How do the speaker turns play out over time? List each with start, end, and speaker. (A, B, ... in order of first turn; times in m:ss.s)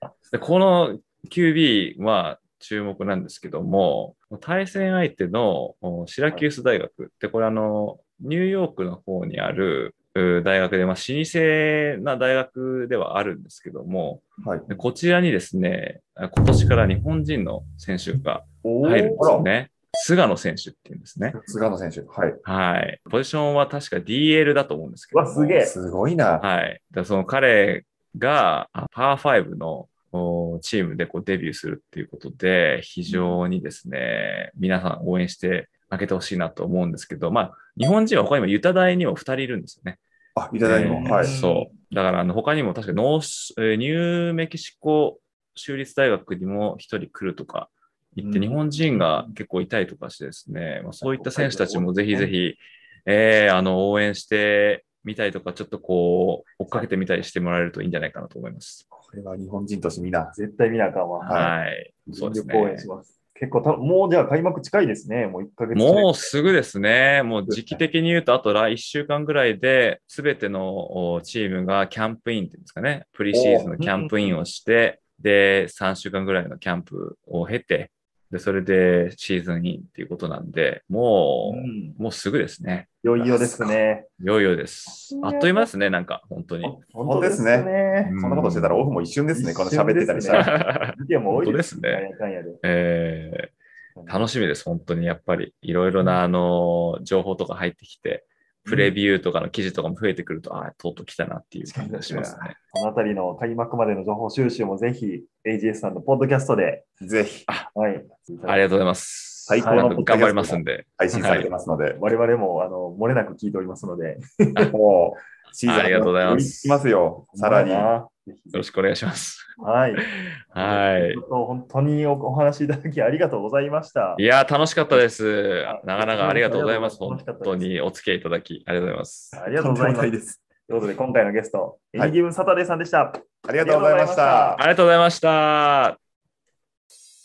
0:00.3-0:21.4 A
0:14.4-0:14.7 B
0:18.6-0:19.3 C
0:19.2-0:19.5 B
0:21.3-0:21.6 C
0:21.5-0:22.4 B
0:22.4-0:25.6 A
0:25.1-0:25.8 C
0:25.6-0:26.4 B
0:26.4-0:40.0 A
0:33.1-0:33.4 C
0:40.4-0:41.3 B
0:40.6-0:58.8 A
0:40.8-0:41.7 C
0:48.2-0:49.2 C
0:51.0-0:52.3 C
0:58.9-1:00.4 B
1:00.3-1:01.5 C
1:01.2-1:02.9 A
1:01.2-1:01.6 B
1:02.1-1:06.3 C
1:05.7-1:26.8 A
1:13.3-1:13.7 B
1:13.8-1:14.4 C
1:21.4-1:22.0 C
1:23.0-1:24.1 C
1:24.9-1:25.7 C
1:26.6-1:28.2 C
1:27.0-1:30.5 B
1:28.0-1:28.8 A
1:29.3-1:32.6 C
1:30.3-1:32.1 A
1:32.6-1:33.5 A
1:34.0-1:34.3 C
1:34.1-1:42.6 A
1:41.7-1:46.8 C
1:42.1-1:42.5 B
1:47.0-1:47.5 B
1:47.7-1:48.6 C
1:48.4-1:51.5 A
1:49.5-1:52.0 B
1:49.6-1:49.9 C
1:51.9-1:54.7 C
1:54.6-1:57.9 B
1:55.6-1:56.8 A
1:55.9-1:56.4 C
1:57.3-1:58.7 C
1:58.5-2:01.2 A
1:59.6-2:04.2 C
2:04.2-2:09.4 A
2:05.6-2:07.7 C
2:09.4-2:10.1 C
2:09.4-2:10.4 B
2:10.7-2:14.6 C
2:13.4-2:14.6 B
2:14.6-2:16.0 A